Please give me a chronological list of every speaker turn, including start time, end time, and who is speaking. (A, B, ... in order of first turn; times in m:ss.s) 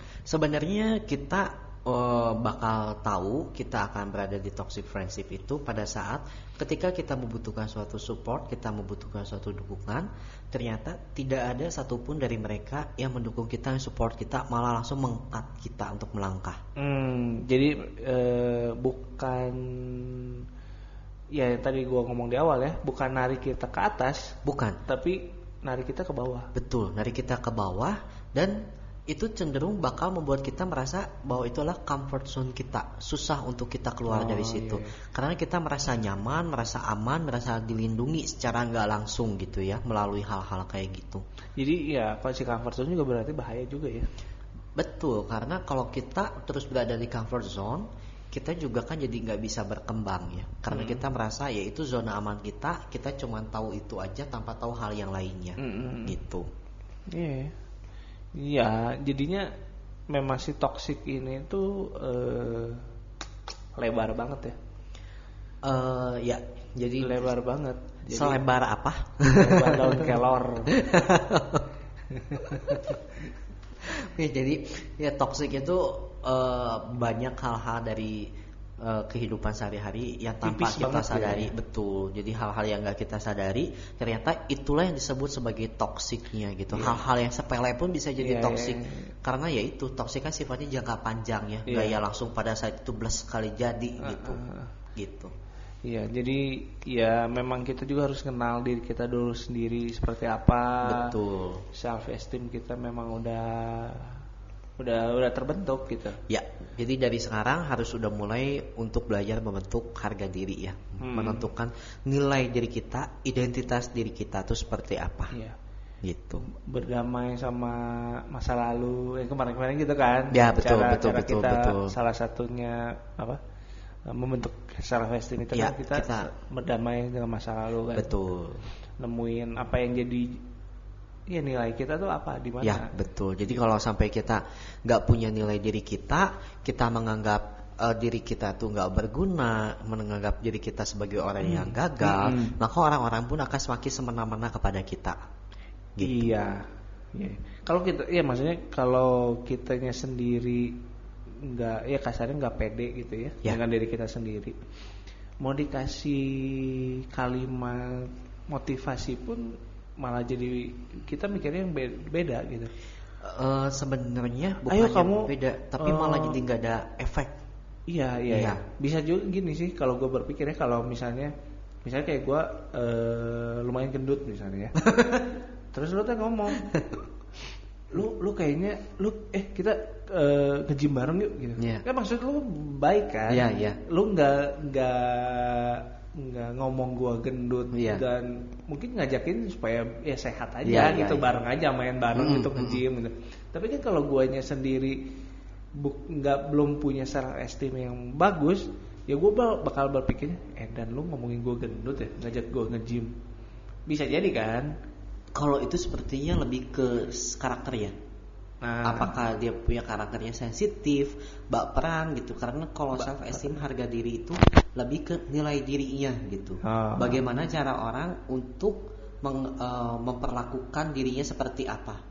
0:00.2-0:16.6 A
0:16.8-0:20.4 B
0:21.3-0:26.5 B
0:24.4-0:24.8 A
0:26.5-0:41.2 A
0:34.1-0:34.9 B
0:41.6-0:44.1 B
0:44.8-0:56.5 A
0:50.7-0:51.0 B
0:55.6-0:56.2 B
0:57.1-0:57.6 B
0:58.3-0:59.5 B
1:00.1-1:02.8 B
1:03.8-1:04.6 B
1:05.6-1:07.3 A
1:07.0-1:08.4 B
1:08.1-1:10.1 A
1:09.3-1:10.8 B
1:10.7-1:11.7 A
1:12.1-1:13.0 B
1:12.4-1:13.0 A
1:13.8-1:34.4 A
1:20.4-1:21.5 B
1:26.7-1:27.0 B
1:28.2-1:29.1 B
1:31.6-1:32.0 B
1:34.0-1:34.7 B
1:35.0-1:35.3 A
1:35.8-1:41.1 B
1:40.8-1:41.6 A
1:41.7-1:44.2 B
1:44.8-1:46.2 B
1:46.3-1:55.3 A
1:51.0-1:51.4 B
1:55.3-1:55.6 B
1:56.0-1:56.4 A
1:56.5-2:03.4 B
2:00.3-2:01.9 A
2:04.1-2:08.1 B
2:05.5-2:06.3 A
2:07.9-2:08.7 A
2:09.0-2:10.4 B
2:11.3-2:12.9 B
2:12.6-2:25.2 A
2:21.4-2:22.6 B
2:26.0-2:26.3 A
2:26.0-2:30.8 B
2:31.4-2:34.6 B
2:35.4-2:42.7 B
2:43.2-2:47.4 A
2:44.6-2:46.4 B
2:47.9-2:51.3 B
2:48.3-2:48.6 A
2:51.8-2:54.8 B
2:54.8-2:55.3 A
2:55.7-2:56.7 B
2:56.6-2:56.9 A
2:57.9-3:15.0 B
3:01.6-3:01.8 A
3:03.3-3:03.8 A
3:07.7-3:08.0 A
3:10.6-3:11.2 A
3:12.1-3:12.8 A
3:15.7-3:23.1 B
3:23.9-3:24.7 B
3:25.3-3:27.9 A
3:28.6-3:29.1 B
3:28.8-3:42.0 A
3:36.6-3:37.2 B